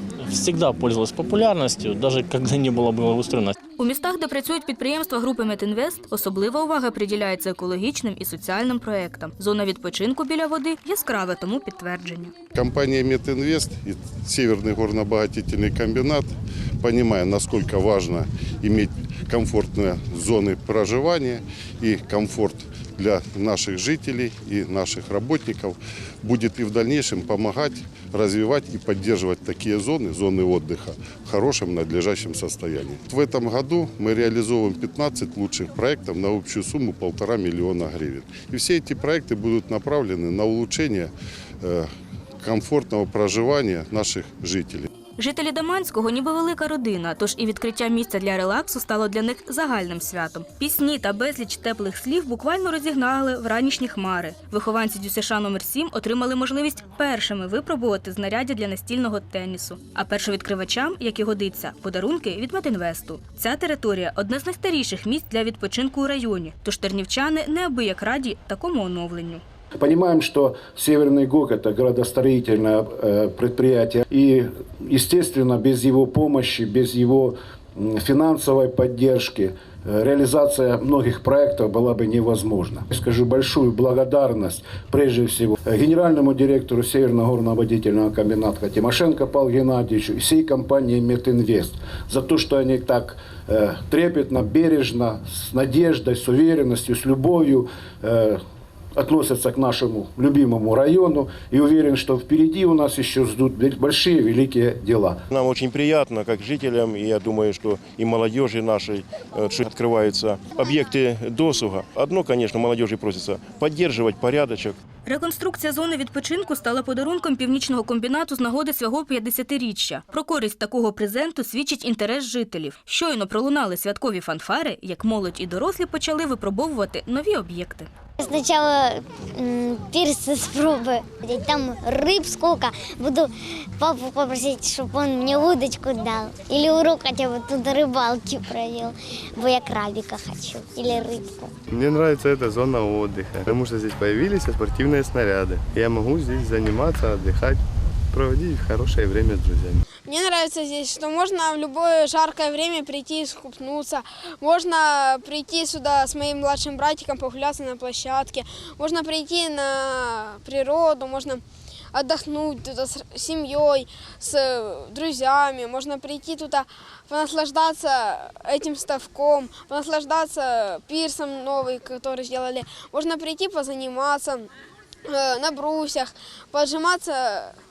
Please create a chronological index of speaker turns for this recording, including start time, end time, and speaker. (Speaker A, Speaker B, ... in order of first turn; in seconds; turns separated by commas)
Speaker A: 0.2-3.5, Speaker B: 3.8-12.3, Speaker C: 12.5-16.3, Speaker C: 16.8-41.9, Speaker C: 42.4-44.9, Speaker B: 45.2-69.4, Speaker D: 69.8-98.4, Speaker D: 99.0-105.2, Speaker E: 105.3-114.8, Speaker B: 115.0-127.9, Speaker F: 128.2-141.5, Speaker G: 141.7-147.6, Speaker G: 148.1-149.8, Speaker H: 150.0-161.4, Speaker H: 161.9-174.5, Speaker H: 175.1-177.6